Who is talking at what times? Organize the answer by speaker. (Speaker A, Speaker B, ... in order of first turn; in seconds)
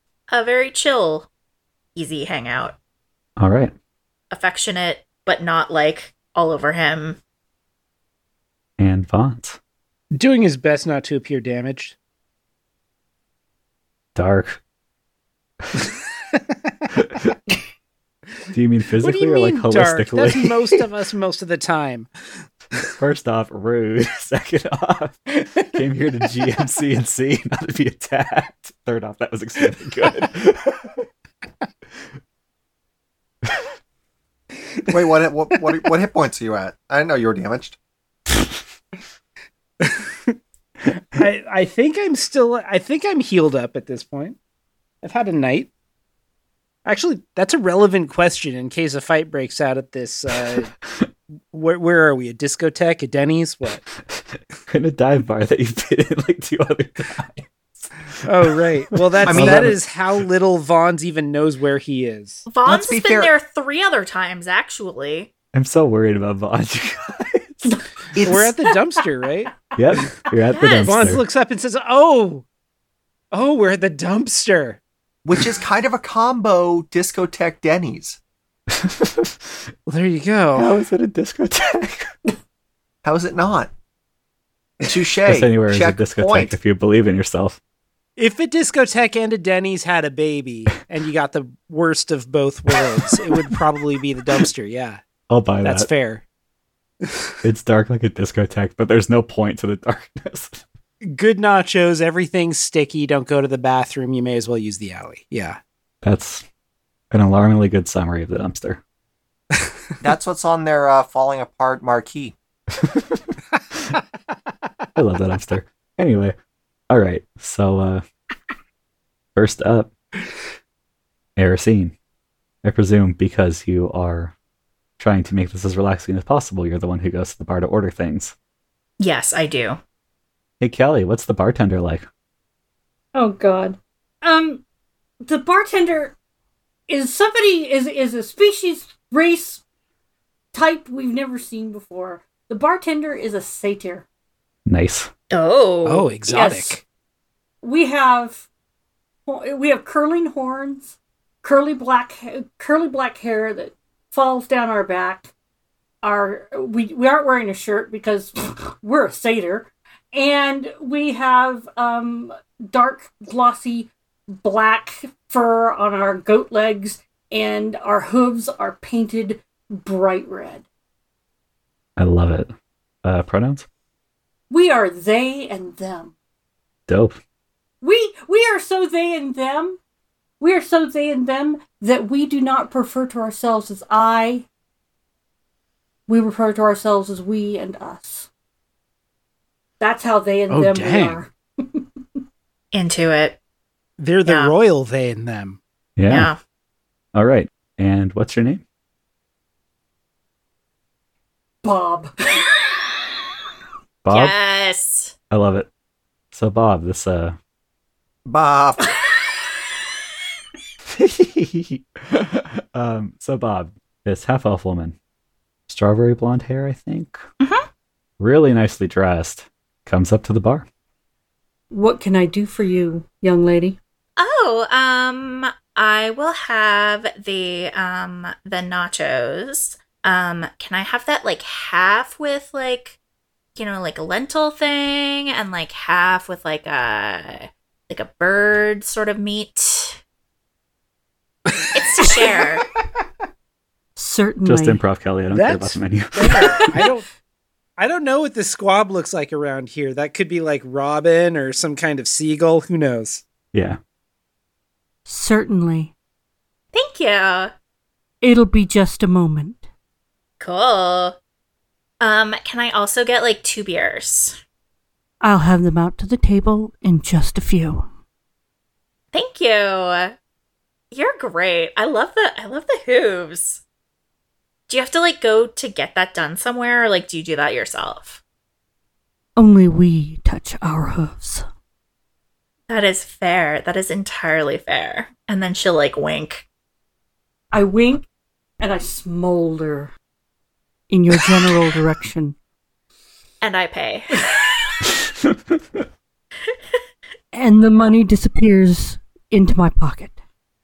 Speaker A: 0.3-1.3, 1.9-2.8, 4.3-7.2, 62.5-65.3, 70.6-71.1, 129.0-129.8, 145.3-146.1, 192.7-193.4, 194.2-194.5, 196.1-196.4, 204.1-205.1, 217.4-217.7, 224.2-233.0, 233.6-240.0, 241.7-242.6, 256.7-257.5, 260.4-261.2, 262.0-264.4, 269.1-270.1, 270.9-273.6, 274.7-278.2, 282.7-286.4, 293.4-294.9
Speaker B: 3.4-3.7, 8.8-9.6, 14.1-14.6, 17.0-17.3, 18.5-20.8, 22.8-30.9, 50.6-51.1, 54.1-58.1, 59.1-59.8, 65.5-67.8, 69.7-71.2, 78.7-79.5, 80.5-82.2, 85.3-87.6, 95.3-95.9, 97.4-100.6, 106.0-106.4, 107.1-108.8, 112.7-113.3, 114.9-116.3, 116.9-118.0, 119.3-119.9, 121.4-121.9, 122.6-124.3, 125.0-128.3, 130.6-132.1, 144.7-145.1, 172.0-172.5, 173.0-173.7, 176.9-177.2, 196.0-196.3, 197.1-198.6, 204.0-204.3, 205.3-205.7, 206.3-207.4, 210.9-214.9, 215.7-217.2, 218.2-220.7, 244.4-246.6, 253.5-253.8
Speaker C: 10.1-11.9, 19.0-22.1, 39.8-44.4, 45.0-45.7, 46.8-50.7, 51.5-53.8, 58.2-62.5, 68.2-70.0, 70.8-72.4, 73.3-74.8, 79.9-80.7, 88.2-95.0, 95.6-96.2, 101.0-105.6, 145.8-146.8, 190.5-191.2, 194.0-195.6, 245.3-247.1, 247.8-253.2
Speaker D: 34.9-37.8, 59.3-59.7, 62.6-63.3, 68.1-68.5, 75.2-78.2, 83.0-83.7, 84.8-86.5, 110.0-112.3, 208.2-208.9
Speaker E: 133.1-134.6, 135.2-136.2, 136.9-139.6, 140.5-144.0, 146.3-146.8, 147.6-148.4, 149.2-155.3, 156.0-170.6, 174.5-176.1, 177.8-179.8, 180.4-184.4, 186.1-188.3, 189.8-191.8, 201.6-202.1, 221.7-223.8, 243.9-244.8, 246.4-246.8, 255.1-255.9, 258.2-259.7, 265.2-267.9, 279.4-281.4, 287.5-288.1, 288.6-289.9, 290.9-292.4, 297.3-300.2